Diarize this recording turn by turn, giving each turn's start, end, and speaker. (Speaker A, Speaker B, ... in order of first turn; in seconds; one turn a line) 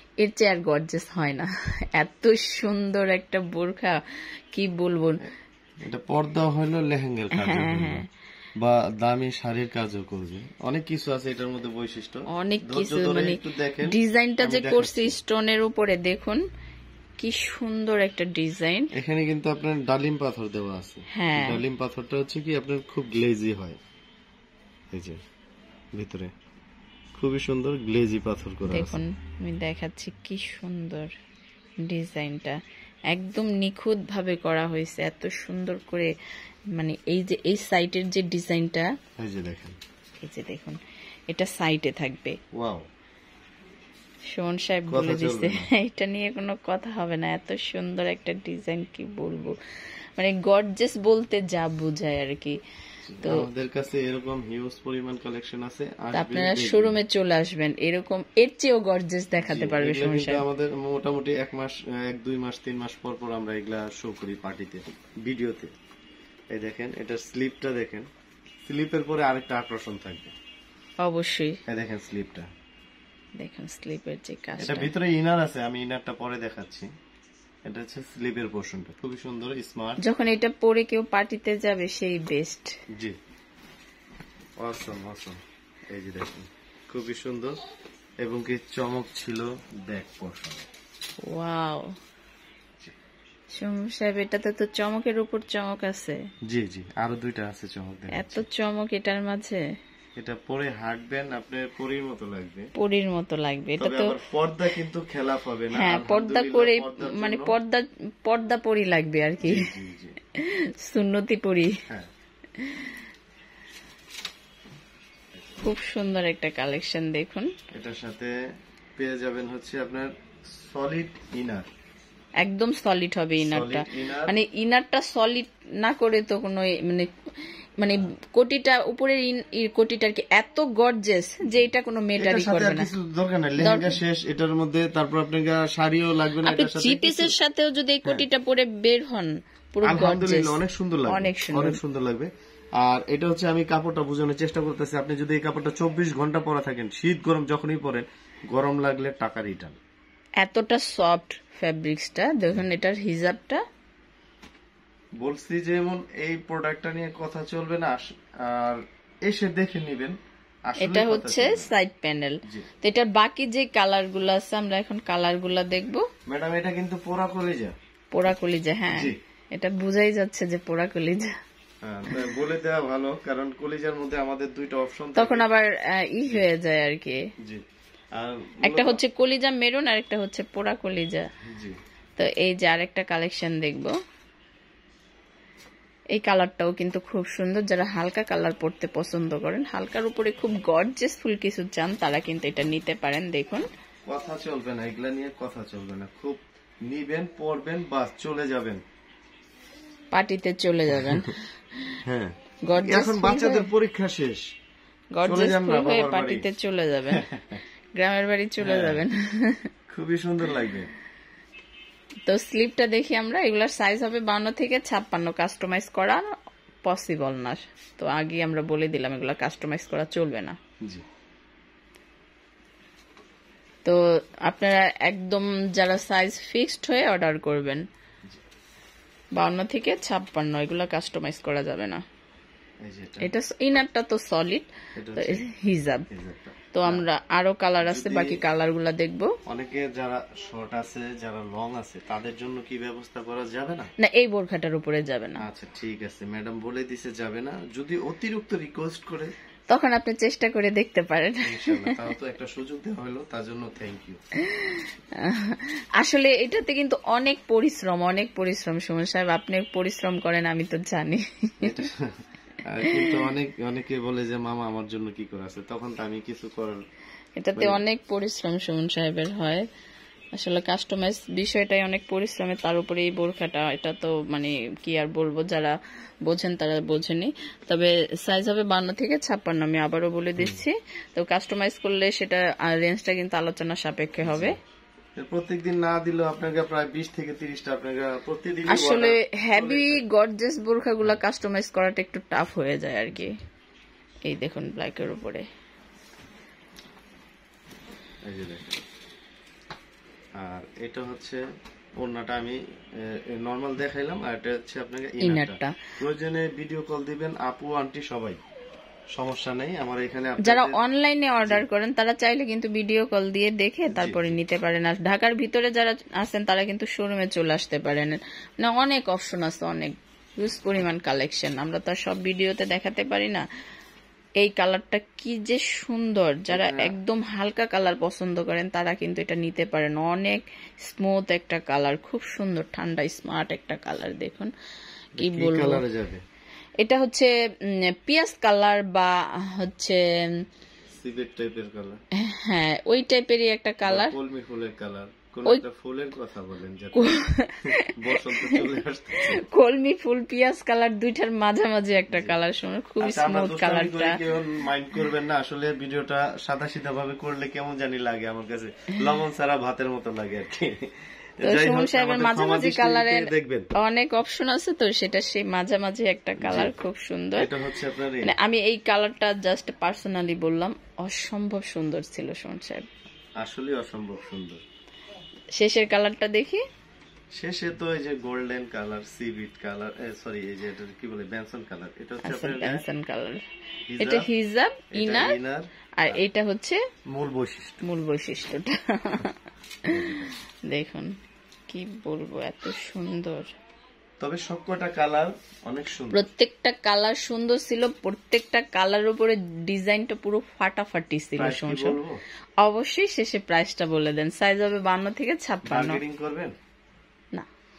Speaker A: 0.2-4.0
Speaker A: 4.5-5.2
Speaker B: 5.8-8.0
Speaker A: 7.3-8.1
Speaker B: 8.6-15.2
Speaker A: 12.3-16.4
Speaker A: 17.2-18.9
Speaker B: 18.9-23.8
Speaker A: 21.1-21.6
Speaker B: 24.9-25.2
Speaker B: 25.9-26.3
Speaker B: 27.1-29.0
Speaker A: 28.7-31.1
Speaker A: 31.8-32.6
Speaker A: 33.1-36.1
Speaker A: 36.7-38.9
Speaker B: 39.2-39.8
Speaker A: 40.2-42.4
Speaker B: 42.5-42.8
Speaker A: 44.3-49.5
Speaker B: 44.9-45.7
Speaker A: 50.2-52.6
Speaker B: 53.1-57.0
Speaker A: 56.1-60.4
Speaker B: 59.4-65.7
Speaker B: 66.5-68.1
Speaker B: 68.7-70.3
Speaker A: 71.0-71.6
Speaker B: 71.7-72.5
Speaker A: 73.4-74.9
Speaker B: 74.6-76.9
Speaker B: 77.7-80.0
Speaker A: 80.0-82.7
Speaker B: 84.6-85.4
Speaker B: 85.9-87.6
Speaker B: 88.2-90.7
Speaker A: 91.2-91.9
Speaker A: 93.5-96.2
Speaker B: 96.5-98.4
Speaker A: 98.1-99.6
Speaker B: 100.2-102.7
Speaker A: 102.8-104.2
Speaker B: 103.8-107.5
Speaker A: 105.7-109.7
Speaker B: 109.4-110.2
Speaker A: 110.4-111.8
Speaker A: 112.6-113.0
Speaker A: 115.6-117.5
Speaker B: 117.7-118.3
Speaker B: 119.0-121.7
Speaker A: 122.4-127.1
Speaker B: 123.4-124.3
Speaker A: 127.8-132.9
Speaker B: 132.2-137.3
Speaker A: 133.6-134.0
Speaker A: 136.4-141.8
Speaker B: 139.8-149.8
Speaker A: 150.4-153.6
Speaker B: 155.2-161.7
Speaker A: 160.8-166.0
Speaker B: 166.3-167.7
Speaker A: 168.1-171.3
Speaker B: 168.9-169.2
Speaker B: 171.8-175.5
Speaker A: 175.2-177.2
Speaker B: 178.2-179.0
Speaker A: 178.7-181.2
Speaker B: 181.5-181.8
Speaker A: 182.2-183.9
Speaker A: 186.1-193.7
Speaker B: 194.1-198.8
Speaker A: 200.1-202.0
Speaker B: 200.9-201.3
Speaker B: 202.0-204.5
Speaker A: 202.7-203.7
Speaker A: 205.1-207.2
Speaker B: 205.2-206.5
Speaker B: 207.1-207.6
Speaker A: 207.9-209.6
Speaker B: 208.6-209.0
Speaker B: 209.9-210.9
Speaker A: 212.3-216.3
Speaker A: 216.8-220.6
Speaker A: 223.8-227.8
Speaker A: 229.3-232.0
Speaker B: 232.8-233.3
Speaker A: 233.2-236.1
Speaker B: 234.9-235.4
Speaker B: 236.1-237.0
Speaker A: 236.7-239.3
Speaker B: 237.8-238.4
Speaker B: 239.5-243.9
Speaker A: 244.0-245.4
Speaker B: 245.4-249.3
Speaker A: 249.7-251.9
Speaker B: 251.4-254.2
Speaker A: 254.4-261.8
Speaker B: 261.6-266.8
Speaker A: 262.9-263.3
Speaker A: 267.4-269.6
Speaker B: 267.5-267.8
Speaker A: 270.4-284.6
Speaker B: 280.4-280.6
Speaker B: 284.2-284.6
Speaker B: 285.2-290.0
Speaker A: 288.7-293.4
Speaker A: 294.2-295.5
Speaker B: 298.2-298.8
Speaker B: 300.4-301.4
Speaker B: 302.0-308.4
Speaker A: 305.2-305.7
Speaker B: 309.1-310.8
Speaker A: 310.4-323.4
Speaker B: 311.4-311.6
Speaker B: 313.9-314.3
Speaker A: 324.4-334.5
Speaker B: 326.5-326.9
Speaker B: 335.2-336.2
Speaker A: 335.2-335.8
Speaker A: 336.8-337.3
Speaker A: 337.9-340.4
Speaker B: 340.9-342.0
Speaker A: 342.2-344.1
Speaker B: 343.8-349.4
Speaker A: 346.9-354.2
Speaker B: 352.1-352.4
Speaker B: 353.0-363.7
Speaker A: 361.4-367.5
Speaker B: 366.4-366.7
Speaker B: 367.4-368.4
Speaker A: 368.2-372.9
Speaker B: 373.4-374.6
Speaker A: 375.5-376.6
Speaker B: 377.4-382.8
Speaker A: 382.2-383.4
Speaker B: 383.9-384.3
Speaker A: 384.0-385.4
Speaker B: 384.9-386.2
Speaker A: 386.0-386.8
Speaker B: 387.1-387.8
Speaker A: 387.8-391.1
Speaker B: 389.9-390.4
Speaker A: 391.7-393.5
Speaker B: 394.2-396.2
Speaker A: 396.1-402.0
Speaker B: 401.4-402.2
Speaker A: 402.6-406.0
Speaker B: 405.6-406.5